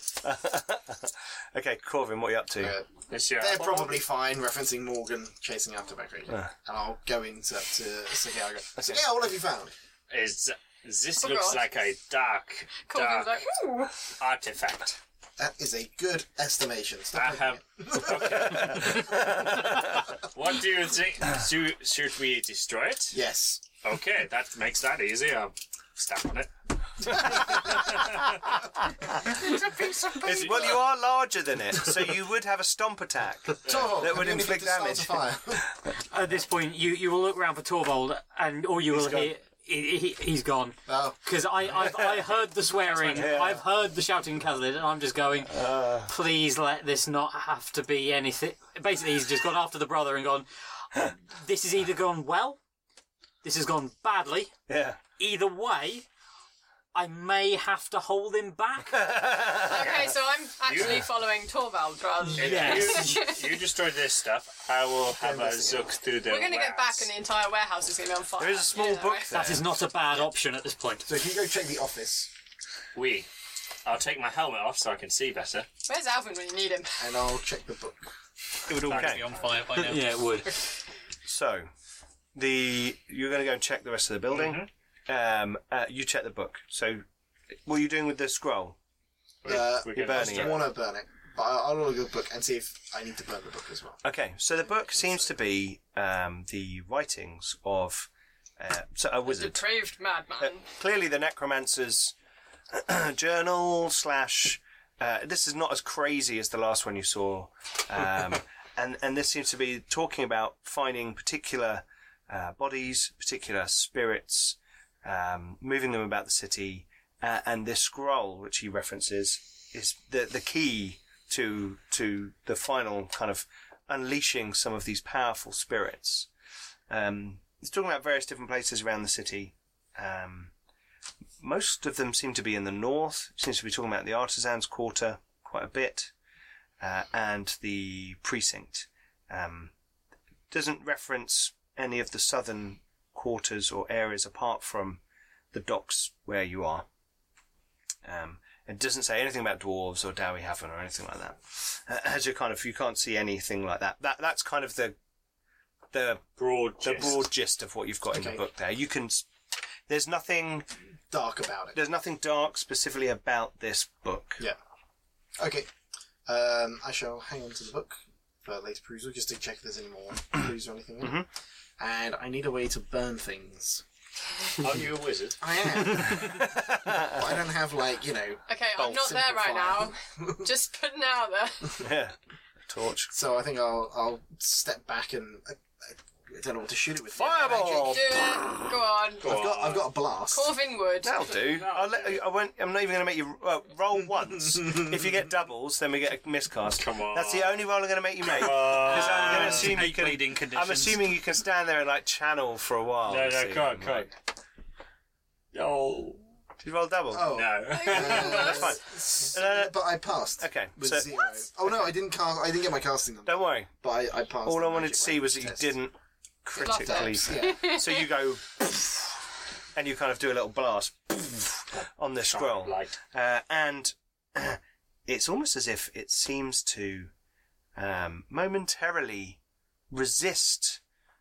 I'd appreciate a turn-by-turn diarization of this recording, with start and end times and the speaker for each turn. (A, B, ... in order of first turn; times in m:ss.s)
0:00.2-0:02.8 A
0:02.6-0:09.7 B
0:03.1-0:04.0 C
0:08.8-0:09.0 A
0:10.1-0:13.4 C
0:11.2-0:11.6 D
0:12.9-0:14.0 D
0:14.1-0:15.0 C
0:15.4-0:18.9 B
0:17.1-0:23.2 C
0:18.5-0:19.9 A
0:23.1-0:23.6 B
0:23.8-0:28.3 C
0:27.2-0:27.7 B
0:29.4-0:30.8 C
0:30.2-0:35.6 A
0:33.6-0:35.6 B
0:33.7-0:33.9 C
0:36.0-0:52.6 E
0:38.9-0:39.3 A
0:40.9-0:41.2 B
0:41.8-0:42.2 A
0:42.8-0:43.4 C
0:43.0-0:43.6 A
0:45.5-0:46.1 A
0:53.4-0:54.5 E
0:54.7-0:55.0 A
0:55.2-0:56.1 E
0:56.9-0:59.0 E
0:58.9-1:00.1 A
0:59.6-1:03.6 D
1:00.6-1:01.1 C
1:02.3-1:03.2 E
1:02.4-1:07.1 C
1:05.1-1:05.9 B
1:06.2-1:09.3 D
1:08.4-1:09.7 A
1:09.3-1:11.1 E
1:11.1-1:12.3 B
1:12.9-1:13.3 C
1:13.8-1:15.7 C
1:15.8-1:17.1 D
1:17.0-1:18.1 B
1:18.7-1:20.4 F
1:18.9-1:19.3 A
1:19.8-1:20.6 E
1:21.2-1:21.7 A
1:22.3-1:27.0 A
1:24.3-1:24.7 C
1:27.7-1:28.8 A
1:29.4-1:30.7 C
1:29.4-1:34.0 B
1:29.9-1:30.6 A
1:34.0-1:39.6 A
1:39.2-1:40.6 D
1:40.4-1:42.1 A
1:42.7-2:06.3 A
2:06.9-2:10.5 A
2:11.4-2:16.1 A
2:16.8-2:19.7 A
2:20.5-2:25.0 A
2:25.5-2:26.9 A
2:28.0-2:35.0 A
2:35.9-2:36.3 A
2:36.4-2:37.3 C
2:36.8-2:39.3 A
2:38.1-2:38.4 B
2:39.9-2:40.7 A
2:41.1-2:41.8 B
2:41.7-2:44.5 A
2:45.4-2:45.7 B
2:46.3-2:51.2 B
2:51.0-2:51.3 A
2:51.8-2:53.8 B
2:54.6-2:55.4 C
2:55.4-3:00.5 B
2:55.9-2:57.3 A
2:58.5-3:01.8 D
2:58.8-2:59.2 A
3:01.8-3:02.2 A
3:02.7-3:03.1 A
3:03.1-3:08.2 B
3:07.2-3:08.6 A
3:07.3-3:09.4 D
3:09.2-3:09.9 C
3:09.2-3:10.5 B
3:10.3-3:11.2 D
3:11.0-3:24.1 A
3:11.4-3:12.2 C
3:16.8-3:17.6 C
3:18.2-3:19.8 C
3:18.6-3:21.1 F
3:23.1-3:24.2 C
3:25.5-3:26.3 C
3:26.6-3:27.4 A
3:27.1-3:35.8 B
3:27.2-3:28.6 C
3:27.7-3:28.7 D
3:27.9-3:31.1 A
3:33.3-3:33.7 A
3:34.4-3:39.2 A
3:36.6-3:38.1 D
3:36.6-3:37.8 B
3:39.7-3:47.1 A
3:41.8-3:43.0 C
3:47.8-3:49.4 A
3:49.9-3:50.8 A